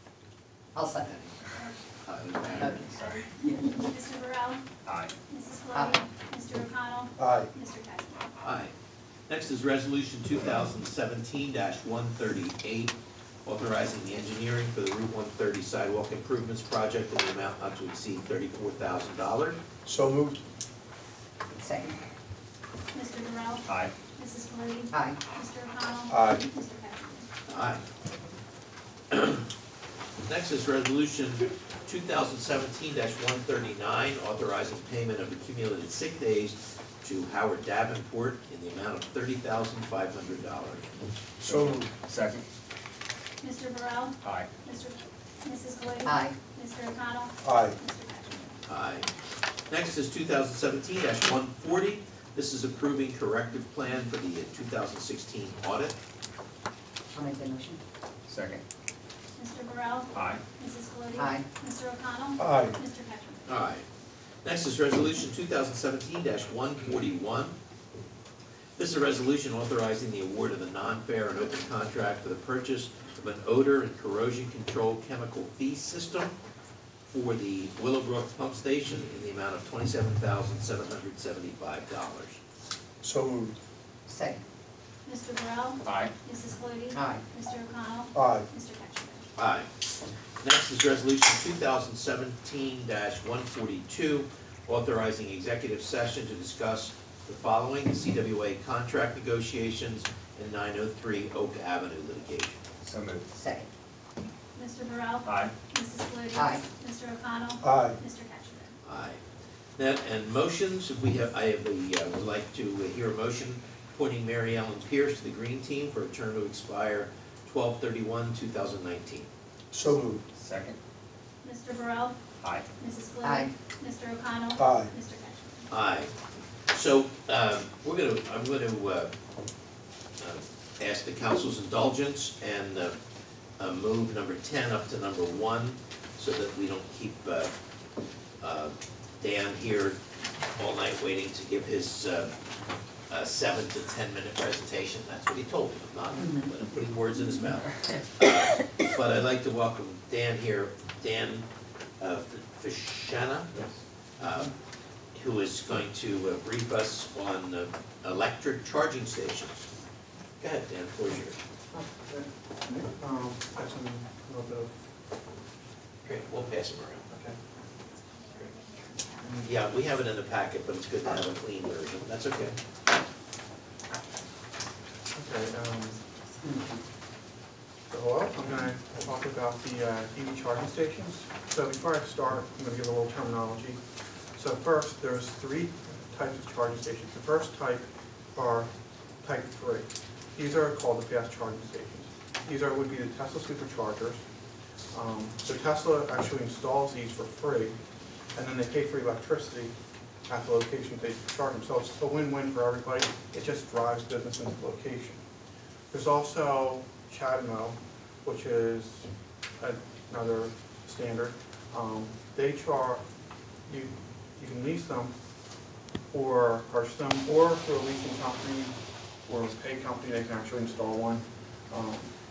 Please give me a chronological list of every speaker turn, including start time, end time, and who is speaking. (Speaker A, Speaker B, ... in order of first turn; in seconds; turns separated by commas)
Speaker A: 0.8-1.1, Speaker B: 1.0-1.4, Speaker B: 2.0-2.9, Speaker A: 2.6-2.9, Speaker C: 2.9-3.2, Speaker D: 2.9-4.6, Speaker C: 4.8-5.2, Speaker D: 5.3-8.3, Speaker E: 7.2-7.5, Speaker B: 8.4-8.7, Speaker B: 9.3-19.6, Speaker E: 19.9-20.4, Speaker A: 21.6-22.0, Speaker D: 22.9-27.3, Speaker C: 23.7-23.9, Speaker A: 24.9-25.2, Speaker E: 26.1-26.5, Speaker B: 27.5-27.8, Speaker B: 29.1-29.5, Speaker B: 30.2-40.9, Speaker C: 41.4-42.5, Speaker E: 41.4-41.7, Speaker D: 43.4-48.6, Speaker C: 44.2-44.5, Speaker A: 46.0-46.4, Speaker E: 47.4-47.8, Speaker B: 48.7-49.1, Speaker B: 49.7-56.0, Speaker A: 57.1-57.8, Speaker C: 58.3-58.6, Speaker D: 59.4-63.5, Speaker C: 60.1-60.4, Speaker A: 61.2-61.5, Speaker E: 62.4-62.8, Speaker B: 63.5-63.9, Speaker B: 64.4-67.5, Speaker B: 68.8-76.3, Speaker B: 77.1-82.4, Speaker E: 83.0-83.5, Speaker A: 84.1-84.4, Speaker D: 85.1-89.2, Speaker C: 85.8-86.1, Speaker A: 86.9-87.2, Speaker E: 88.1-88.5, Speaker B: 89.4-89.7, Speaker B: 90.4-102.6, Speaker C: 102.8-103.3, Speaker A: 103.3-103.7, Speaker D: 104.5-108.7, Speaker C: 105.2-105.5, Speaker A: 106.3-106.6, Speaker E: 107.6-108.0, Speaker B: 108.8-109.2, Speaker B: 109.8-119.3, Speaker E: 119.7-120.2, Speaker C: 120.4-120.8, Speaker D: 121.4-122.2, Speaker C: 122.4-122.7, Speaker D: 122.8-125.7, Speaker A: 123.2-123.5, Speaker E: 124.6-124.9, Speaker B: 125.7-126.1, Speaker B: 126.7-129.1, Speaker B: 130.2-133.0, Speaker B: 133.6-137.5, Speaker B: 138.4-140.0, Speaker B: 140.6-142.3, Speaker B: 143.1-151.5, Speaker B: 152.0-153.6, Speaker B: 154.2-154.5, Speaker B: 155.2-159.7, Speaker B: 160.4-161.4, Speaker F: 161.7-164.9, Speaker B: 166.0-167.1, Speaker F: 167.1-167.4, Speaker D: 168.4-168.9, Speaker F: 169.2-169.5, Speaker B: 169.4-172.6, Speaker F: 175.2-176.0, Speaker A: 176.4-176.8, Speaker F: 177.9-183.8, Speaker F: 184.4-188.7, Speaker F: 189.2-194.2, Speaker F: 194.9-197.7, Speaker F: 198.3-199.7, Speaker F: 200.3-205.2, Speaker F: 205.9-213.0, Speaker F: 213.7-215.1, Speaker F: 216.1-218.7, Speaker F: 219.3-222.1